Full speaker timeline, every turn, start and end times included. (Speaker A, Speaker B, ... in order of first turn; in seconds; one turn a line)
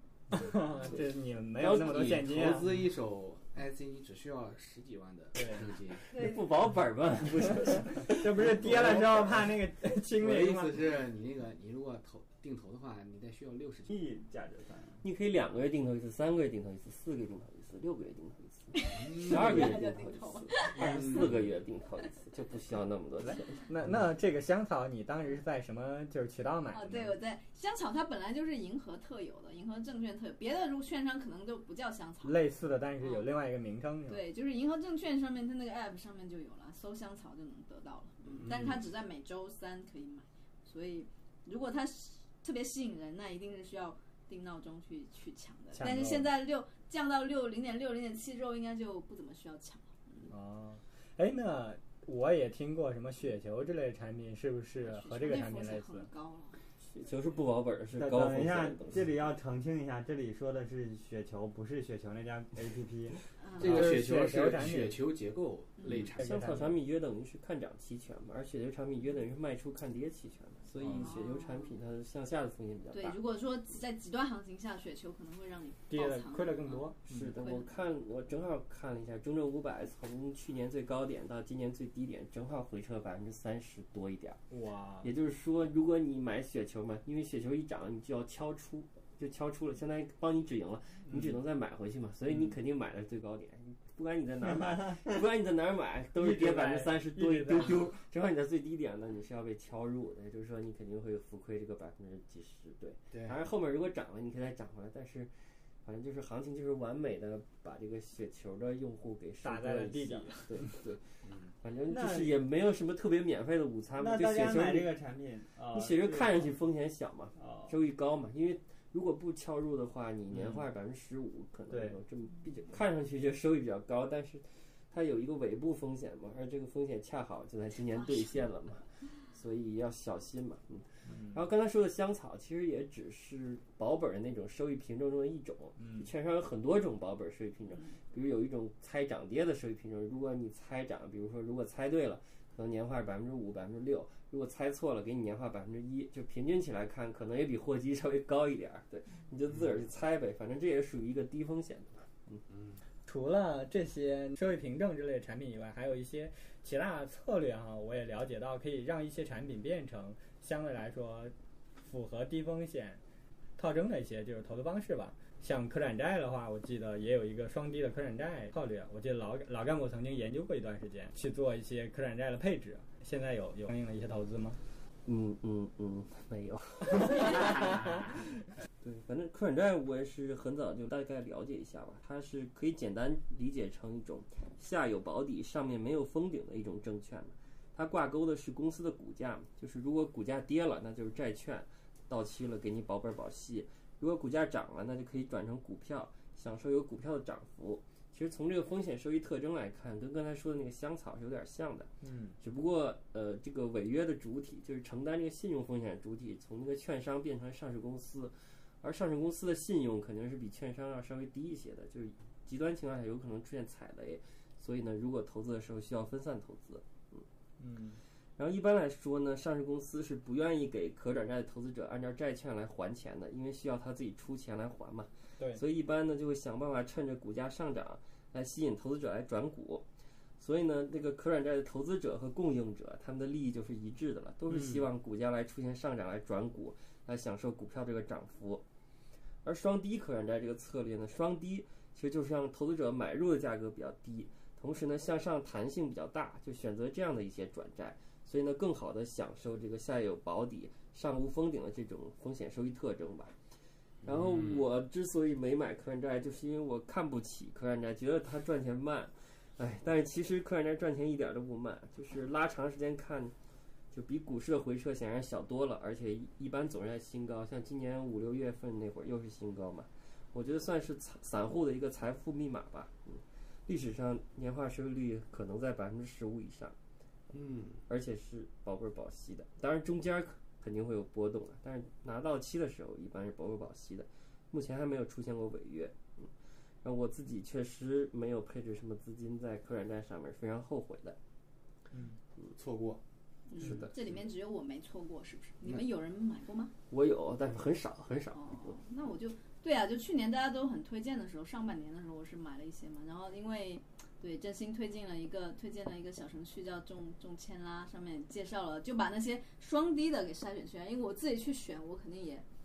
Speaker A: 0.3-2.7
Speaker B: 1.6-2.3
Speaker C: 1.8-6.0
Speaker A: 5.3-5.6
Speaker B: 6.1-9.0
Speaker D: 6.1-6.4
Speaker A: 7.9-10.8
Speaker C: 8.8-9.1
Speaker C: 10.2-13.9
Speaker E: 13.9-15.0
Speaker B: 15.0-23.6
Speaker D: 18.7-21.3
Speaker C: 20.8-21.3
Speaker A: 23.5-27.1
Speaker D: 26.7-32.4
Speaker A: 32.2-34.2
Speaker D: 33.0-33.2
Speaker D: 34.1-50.3
Speaker A: 45.7-46.3
Speaker A: 50.3-56.1
Speaker D: 54.8-56.6
Speaker B: 56.9-59.1
Speaker E: 58.0-63.2
Speaker D: 63.4-63.8
Speaker C: 63.6-66.3
Speaker A: 63.6-65.0
Speaker D: 65.8-66.1
Speaker A: 66.1-66.7
Speaker B: 66.1-73.2
Speaker D: 70.9-71.8
Speaker D: 72.9-77.7
Speaker A: 75.9-77.3
Speaker B: 77.0-84.4
Speaker A: 84.5-85.1
Speaker B: 85.0-114.9
Speaker A: 91.1-91.3
Speaker A: 96.2-97.8
Speaker A: 109.4-110.7
Speaker E: 111.9-112.3
Speaker E: 114.0-116.5
Speaker B: 115.7-152.4
Speaker E: 117.4-117.7
Speaker A: 131.1-131.4
Speaker A: 135.8-136.1
Speaker A: 153.1-163.0
Speaker A: 163.6-174.6
Speaker B: 175.1-178.2
Speaker A: 177.4-177.9
Speaker B: 178.8-201.9
Speaker A: 202.0-202.3
Speaker B: 202.4-217.2
Speaker A: 217.6-218.0
Speaker B: 218.4-229.8
Speaker B: 230.4-238.6
Speaker A: 234.5-234.8
Speaker B: 239.4-253.3
Speaker B: 254.0-263.3
Speaker C: 254.1-254.5
Speaker B: 263.9-276.7
Speaker C: 277.3-277.8
Speaker B: 277.9-286.3
Speaker B: 286.8-291.2
Speaker A: 291.9-292.2
Speaker C: 292.5-293.0
Speaker D: 293.5-296.7
Speaker B: 293.6-293.9
Speaker B: 296.9-298.7
Speaker D: 298.3-312.4